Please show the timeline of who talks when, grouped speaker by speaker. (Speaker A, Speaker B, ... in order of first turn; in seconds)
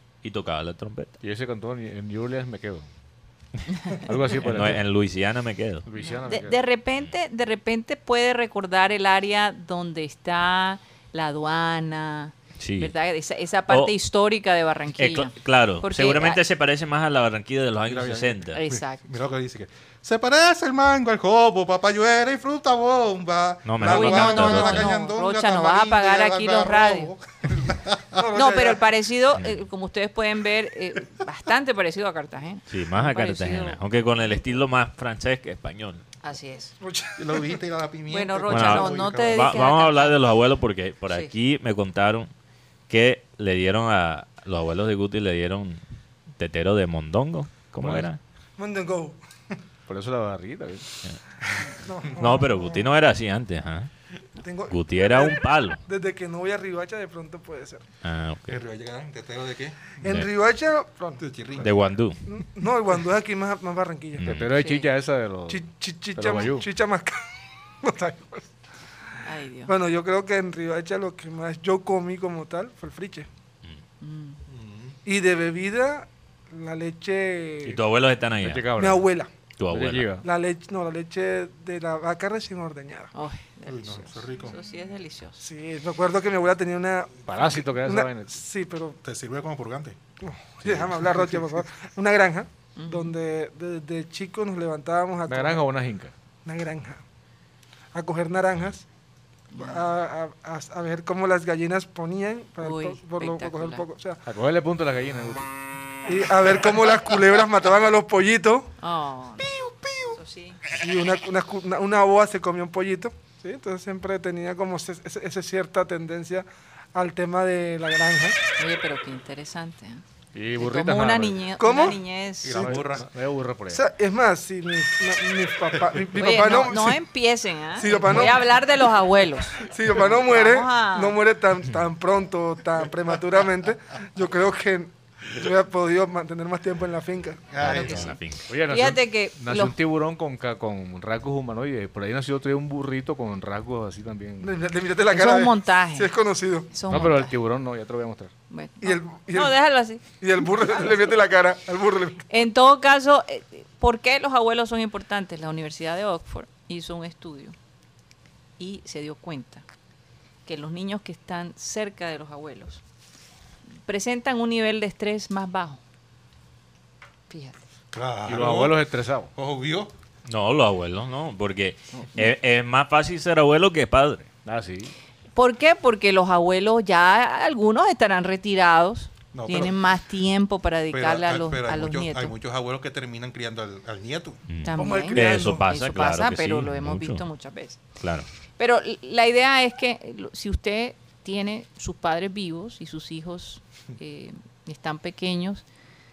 Speaker A: 0.2-1.2, 4.4-5.9, 12.6-12.9, 15.0-18.6, 23.7-24.9, 29.4-29.6, 32.7-36.0, 38.5-42.3, 42.9-45.8, 46.4-48.2, 52.2-53.9, 54.7-55.8, 58.0-58.6, 61.6-62.2, 64.2-64.5, 77.6-78.7, 79.6-80.1, 137.6-138.5, 170.3-174.3, 184.5-187.2, 188.0-188.3
Speaker B: 1.2-2.9, 4.0-4.8, 5.9-6.6, 47.8-48.1, 49.9-50.9, 64.2-66.7, 78.4-79.1, 79.7-80.3, 87.3-88.4, 95.3-96.1, 104.3-105.5, 120.3-121.5, 122.5-123.8, 137.7-144.6, 146.9-148.3, 168.3-169.3, 174.4-174.9
Speaker C: 6.0-16.4, 18.5-19.1, 23.8-27.1, 28.4-34.4, 36.2-36.7, 38.1-40.2, 64.5-64.9, 69.2-69.7, 74.0-74.4, 83.1-85.4, 92.8-93.1, 99.5-99.8, 102.6-103.8, 108.8-110.6, 118.6-120.0, 120.6-122.8, 126.2-131.2, 138.7-139.8, 145.1-146.1, 146.7-147.4, 148.5-150.0, 152.3-157.6, 158.6-159.7, 160.5-162.8, 163.8-165.8, 167.3-167.6, 175.3-182.3, 184.6-187.8, 188.6-195.7
Speaker D: 17.9-28.4, 37.2-39.6, 58.5-60.0, 61.2-61.8, 74.5-75.0, 83.7-84.6, 89.0-90.0, 90.6-91.4, 122.4-123.1, 137.5-138.1, 167.9-168.8, 169.4-169.9, 179.3-179.8, 180.9-184.4
Speaker E: 28.2-28.8, 36.8-37.6, 48.6-49.2, 51.8-52.9, 54.4-57.8, 60.0-61.2, 62.3-64.3, 65.5-68.5, 69.7-73.3, 75.1-77.8, 78.8-79.3, 80.2-83.1, 85.4-89.0, 90.2-95.7, 96.5-97.0, 97.9-98.8, 99.6-104.2, 106.1-108.7, 109.5-110.1, 110.7-118.4, 121.6-122.0, 123.7-127.0, 127.8-128.6, 129.6-137.5, 144.4-146.7, 148.8-149.6, 150.1-152.3, 184.8-185.7